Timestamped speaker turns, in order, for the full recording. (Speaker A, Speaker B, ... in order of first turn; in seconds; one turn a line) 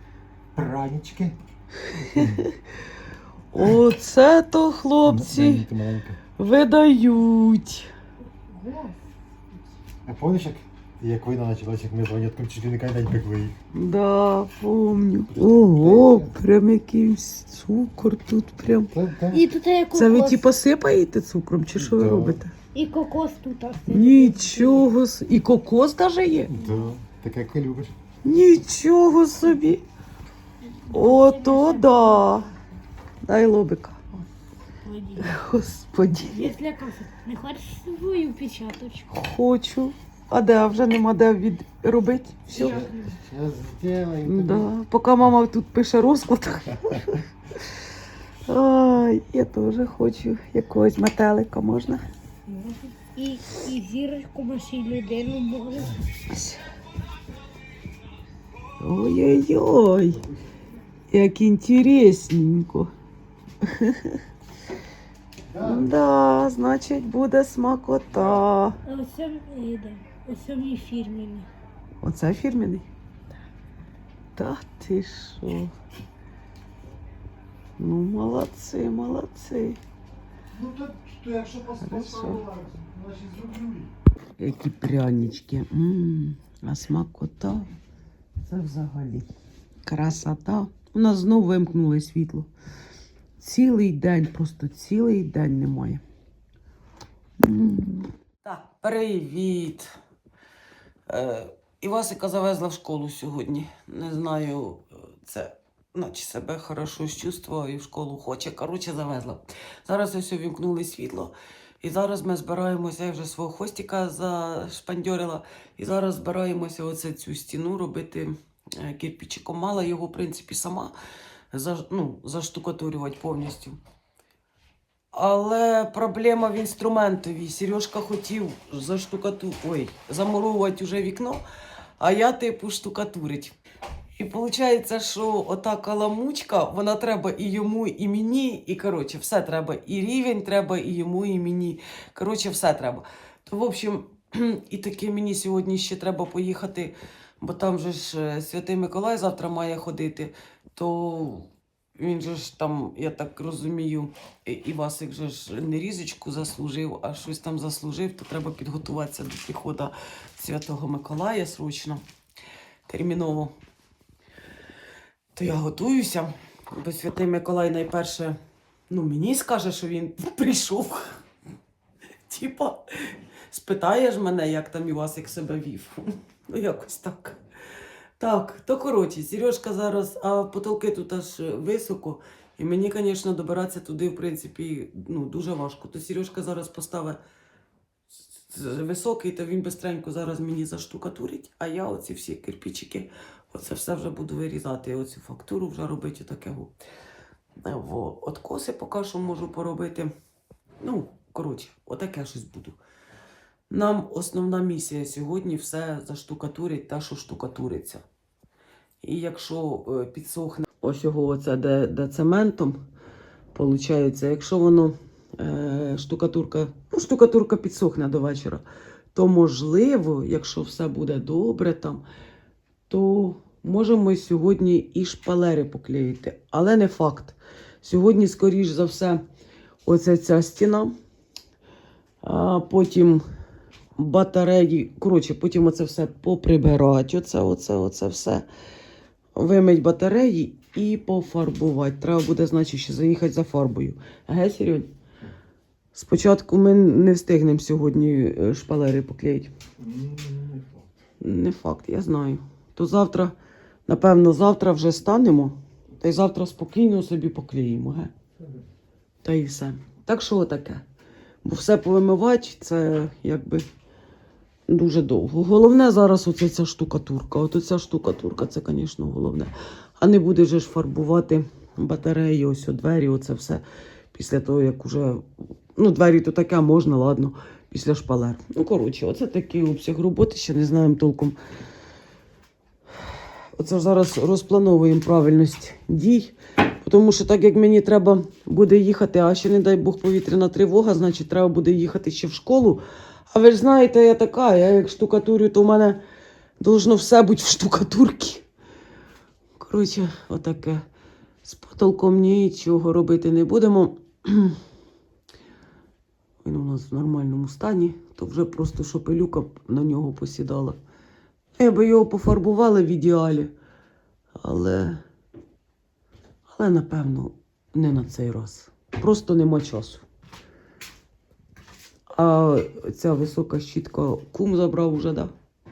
Speaker A: 0.5-1.4
Speaker B: 1.9-2.6
Speaker A: 2.1-2.5
Speaker B: 3.5-5.7
Speaker A: 5.0-6.2
Speaker B: 6.4-7.9
Speaker C: 8.5-9.0
Speaker A: 10.1-13.6
Speaker B: 13.7-18.9
Speaker A: 15.3-16.4
Speaker A: 18.9-19.5
Speaker C: 19.3-20.5
Speaker B: 19.9-22.5
Speaker A: 21.8-22.4
Speaker C: 22.7-24.9
Speaker B: 23.9-26.5
Speaker A: 26.5-27.9
Speaker C: 26.6-26.9
Speaker B: 28.2-29.9
Speaker C: 30.8-32.3
Speaker B: 30.9-32.5
Speaker B: 33.3-34.2
Speaker C: 34.8-35.4
Speaker B: 35.2-36.5
Speaker C: 36.3-39.1
Speaker B: 39.1-42.8
Speaker C: 42.5-43.1
Speaker A: 42.6-44.7
Speaker B: 44.2-47.2
Speaker B: 48.5-52.0
Speaker C: 52.5-56.0
Speaker B: 56.3-56.6
Speaker B: 58.8-60.2
Speaker B: 61.1-62.9
Speaker B: 63.6-64.2
Speaker A: 65.5-65.9
Speaker B: 65.6-68.8
Speaker C: 68.9-71.5
Speaker B: 72.0-72.9
Speaker B: 74.4-75.7
Speaker B: 77.8-79.8
Speaker A: 80.5-83.9
Speaker B: 81.8-82.5
Speaker B: 84.4-87.7
Speaker B: 88.4-89.3
Speaker B: 89.9-92.5
Speaker B: 93.4-96.0
Speaker B: 97.4-99.9
Speaker B: 101.1-120.9
Speaker B: 121.5-123.8
Speaker B: 125.1-131.4
Speaker B: 132.0-133.6
Speaker B: 134.2-162.0
Speaker B: 162.9-163.5
Speaker B: 165.3-168.4
Speaker B: 168.9-171.2
Speaker B: 172.3-177.4
Speaker B: 178.2-187.2
Speaker B: 188.5-196.7
Speaker B: 197.6-200.1
Speaker B: 200.8-202.8
Speaker B: 203.7-208.0
Speaker B: 209.0-212.8
Speaker B: 213.5-222.0
Speaker B: 222.9-229.2
Speaker B: 229.8-230.9
Speaker B: 232.2-233.2
Speaker B: 234.0-238.4
Speaker B: 239.3-244.9
Speaker B: 245.9-249.5
Speaker A: 249.8-250.8
Speaker B: 251.2-253.3
Speaker B: 253.9-258.1
Speaker B: 259.2-260.8
Speaker B: 261.4-263.7
Speaker B: 264.7-275.2
Speaker B: 275.8-281.4
Speaker B: 283.6-296.0
Speaker B: 296.6-298.4
Speaker B: 299.6-300.8
Speaker B: 301.4-304.6
Speaker B: 306.4-310.8
Speaker B: 311.6-313.5
Speaker B: 314.4-315.0
Speaker B: 316.5-320.0
Speaker B: 322.1-325.3